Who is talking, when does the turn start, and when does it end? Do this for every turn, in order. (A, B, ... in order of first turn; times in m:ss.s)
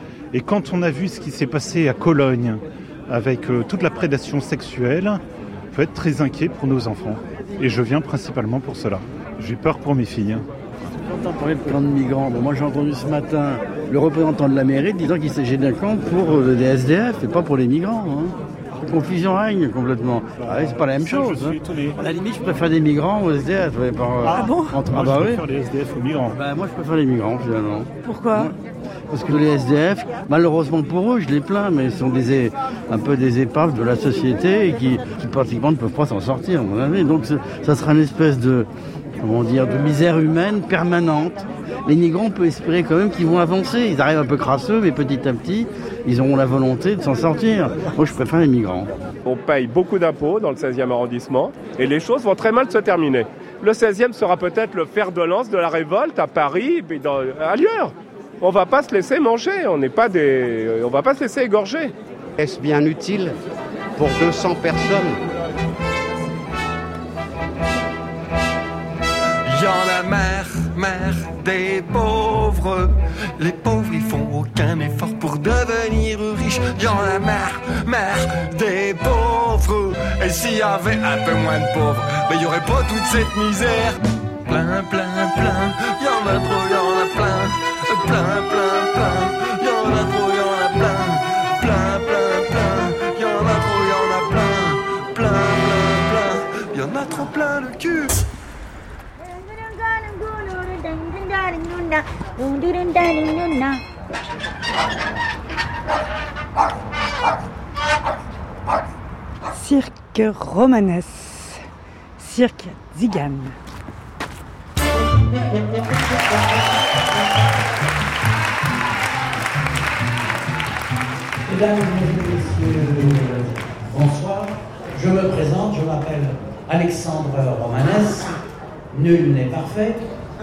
0:00.3-0:10.4 A
0:11.0-0:25.4 B
0:20.4-0:22.0 A
0:24.2-0:26.4 A
0:24.3-0:24.7 C
0:26.3-0:28.5 B
0:28.0-0:28.5 C
0:29.1-0:38.7 B
0:39.2-0:48.9 B
0:49.2-1:01.9 D
1:02.4-1:03.3 E
1:04.0-1:05.2 E
1:09.5-1:38.1 F
1:49.5-1:51.6 C
1:52.2-1:53.6 C
2:01.4-2:08.3 G
2:08.9-2:10.0 G